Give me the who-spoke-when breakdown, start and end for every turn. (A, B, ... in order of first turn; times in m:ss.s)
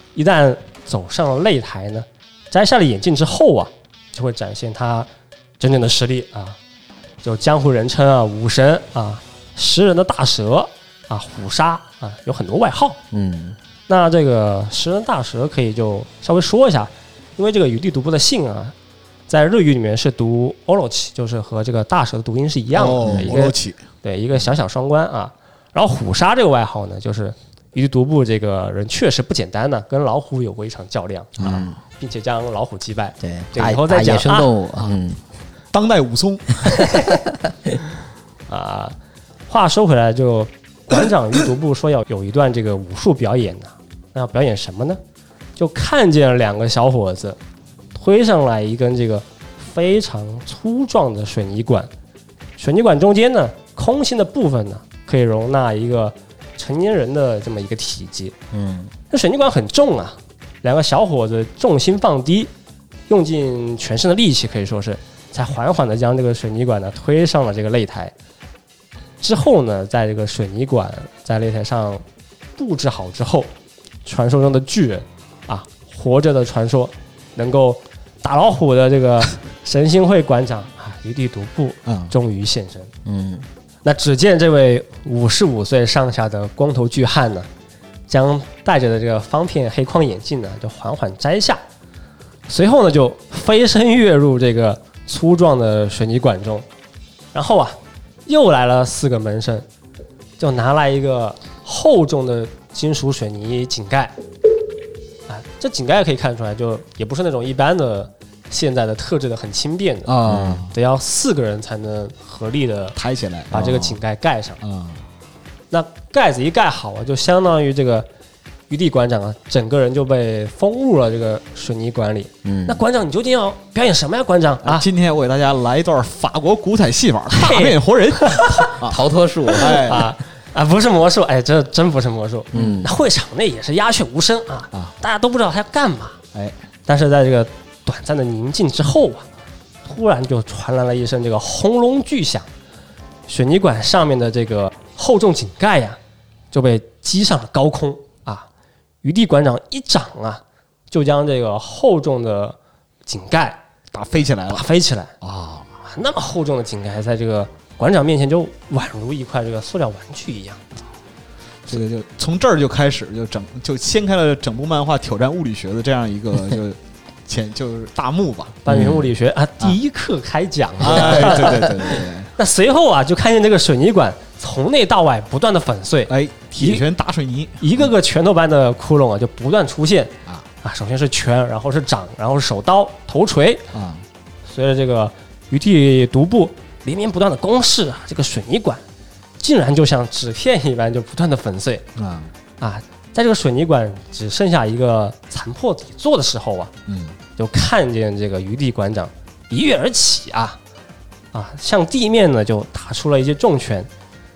0:00.2-0:05.1 A
0:05.6-0:06.6 A
0:07.2-0:13.0 A
0:13.1-0:13.6 B
0:13.9-0:18.7 A
0:19.3-0:31.4 A
0:22.8-0:23.8 C
0:23.0-0:23.4 B
0:31.4-0:31.8 C
0:31.4-0:31.8 B
0:32.0-0:34.5 A
0:33.2-0:35.2 B
0:35.7-0:36.9 C
0:38.5-0:39.0 A
0:39.5-0:45.0 A
0:45.6-0:47.4 A
0:48.0-0:51.9 A
0:52.6-0:58.4 A
0:58.5-0:58.9 B
0:59.1-1:02.5 A
1:03.1-1:08.1 A
1:09.2-1:12.0 A
1:12.6-1:13.5 A
1:14.0-1:22.9 A
1:21.9-1:22.1 C
1:23.0-1:23.5 B
1:23.8-1:27.5 A
1:28.1-1:31.6 A
1:32.5-1:36.7 A
1:37.3-1:39.7 A
1:40.4-1:44.1 A
1:45.3-1:50.1 A
1:50.1-1:50.7 C
1:50.3-1:50.7 B
1:50.7-1:53.0 A
1:53.0-1:53.9 C
1:53.5-1:54.6 A
1:53.6-1:53.9 B
1:54.6-1:55.0 C
1:55.7-1:58.1 A
1:58.7-2:04.9 A
2:02.4-2:02.8 B
2:04.6-2:09.0 C
2:07.3-2:08.7 A
2:08.8-2:10.0 B
2:09.6-2:10.1 C
2:09.6-2:16.2 A
2:12.5-2:12.8 C
2:12.5-2:12.9 B
2:16.9-2:19.3 A
2:19.8-2:22.5 A
2:23.3-2:26.0 A
2:26.5-2:28.5 A
2:29.0-2:33.6 A
2:33.9-2:34.7 C
2:34.5-2:35.1 A
2:35.2-2:35.7 C
2:35.8-2:40.6 A
2:41.7-2:49.0 C
2:48.7-2:51.8 A
2:48.7-2:49.1 B
2:50.8-2:52.3 C
2:52.4-2:56.8 A
2:56.1-2:57.9 C
2:57.6-3:03.6 A
3:03.7-3:04.0 C
3:04.5-3:08.8 A
3:09.4-3:11.8 A
3:12.0-3:12.3 C
3:12.6-3:16.7 A
3:16.9-3:17.2 C
3:17.4-3:20.6 A
3:21.3-3:23.9 A